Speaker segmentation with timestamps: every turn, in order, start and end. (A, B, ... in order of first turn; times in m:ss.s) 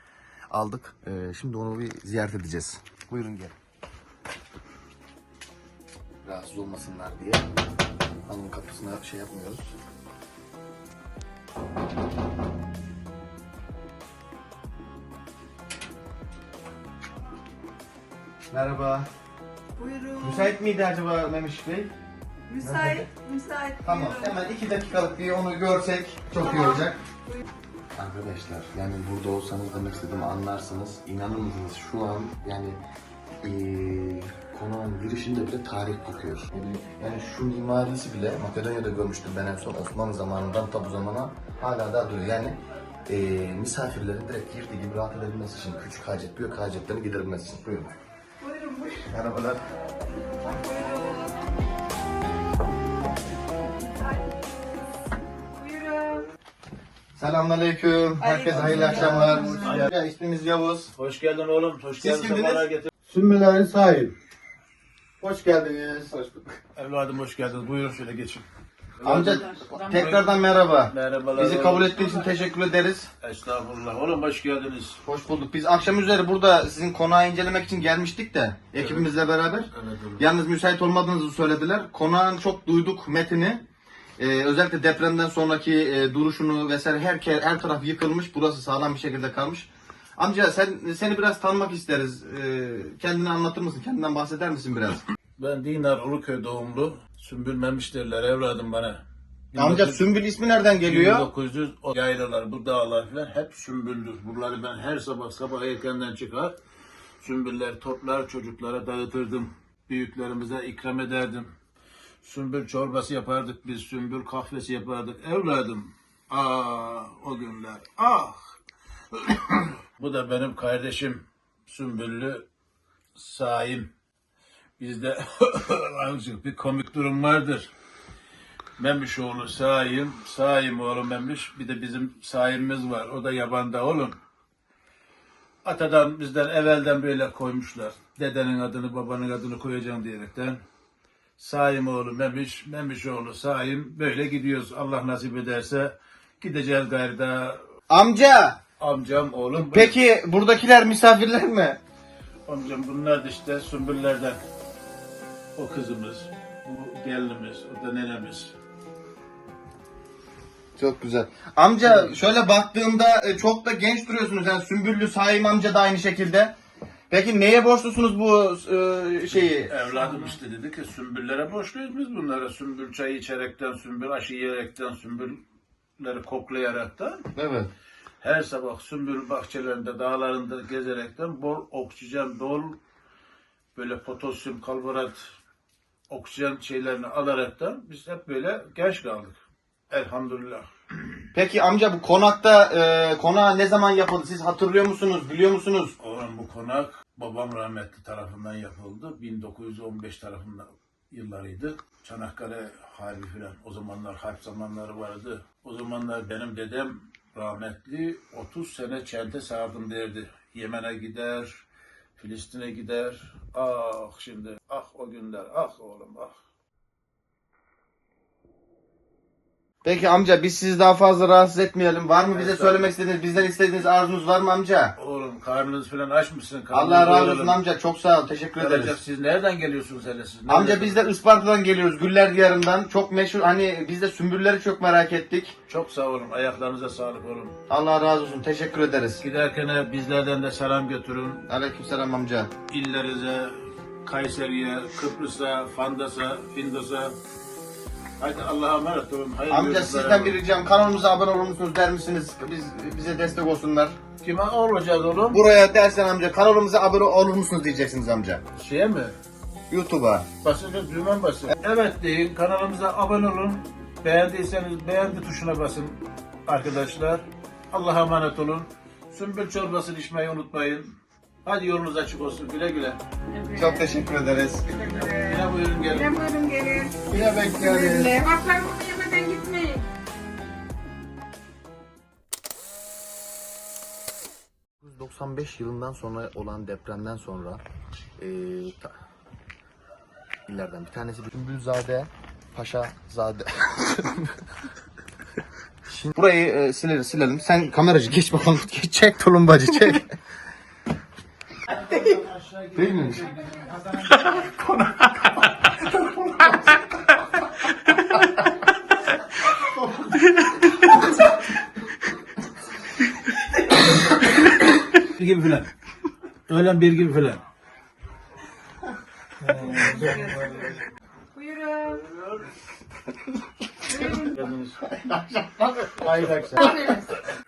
0:00.5-0:03.6 A
0:06.2-0:07.4 A
0:08.3-0:09.7 A
0:18.5-0:19.1 A
0:19.8-0:20.5 B
0:20.2-0:21.9 A
0:22.5-0:24.4 B
0:22.6-0:23.1 A
0:23.8-0:27.0 A
0:26.5-0:27.4 B
0:28.0-0:32.8 A
0:33.4-0:48.0 A
0:48.4-0:49.1 B
0:49.1-0:49.6 A
0:50.4-0:51.5 B
0:53.8-0:54.6 B
0:55.6-0:56.3 B
0:57.2-1:00.9 A
0:58.2-0:59.8 B
0:58.5-0:58.8 C
0:59.6-0:59.9 C
1:01.0-1:02.9 C
1:02.0-1:04.2 A
1:05.2-1:06.5 A
1:06.8-1:08.5 C
1:09.0-1:10.3 C
1:09.0-1:13.1 A
1:10.9-1:12.4 C
1:13.2-1:15.0 C
1:15.0-1:23.6 A
1:18.8-1:19.1 C
1:19.7-1:20.2 C
1:24.2-1:35.0 A
1:35.4-1:40.1 C
1:39.6-1:41.3 A
1:40.8-1:46.6 C
1:47.2-1:51.5 C
1:52.2-1:58.4 C
1:59.1-2:02.5 C
2:03.2-2:03.9 C
2:04.8-2:07.7 C
2:08.8-2:14.2 C
2:15.6-2:20.6 C
2:21.4-2:27.6 C
2:27.9-2:28.6 A
2:28.8-2:30.0 C
2:29.7-2:31.8 A
2:32.5-2:34.4 C
2:35.6-2:38.5 C
2:40.8-2:46.6 A
2:41.8-2:42.2 C
2:47.1-2:49.9 A
2:49.3-2:55.4 C
2:56.0-2:57.3 C
2:57.4-2:57.7 A
2:58.2-3:02.8 C
3:03.8-3:05.2 C
3:06.1-3:09.4 C
3:09.9-3:11.3 C
3:11.3-3:16.0 A
3:16.0-3:31.6 C
3:32.2-3:36.4 C
3:39.8-3:45.0 A
3:42.3-3:42.9 C
3:45.0-3:47.6 C
3:46.7-3:49.0 A
3:48.6-3:51.0 C
3:50.5-3:55.6 A
3:55.7-3:57.5 C
3:57.7-3:59.2 A
3:59.2-4:01.4 C
4:01.5-4:02.5 A
4:02.7-4:07.2 C
4:08.2-4:10.4 C
4:09.5-4:14.0 A
4:14.2-4:15.4 C
4:15.3-4:18.4 A
4:18.6-4:19.2 C
4:19.7-4:20.3 A
4:20.4-4:33.0 C
4:33.3-4:33.9 B
4:33.5-4:35.0 A
4:34.9-4:39.9 B
4:35.0-4:36.2 C
4:37.1-4:38.2 A
4:44.8-4:47.6 A
4:48.2-4:48.9 A
4:50.5-4:54.4 A
4:55.9-5:00.1 A
5:01.7-5:04.8 C
5:02.8-5:03.4 A
5:05.8-5:06.6 A
5:09.6-5:11.1 C
5:14.9-5:15.7 C
5:16.5-5:17.4 C
5:19.4-5:20.8 C
5:20.0-5:20.6 B
5:21.3-5:22.0 B
5:21.9-5:22.5 C
5:23.9-5:24.3 B
5:24.1-5:25.2 C
5:25.0-5:26.1 A
5:25.9-5:27.0 C
5:26.6-5:27.1 B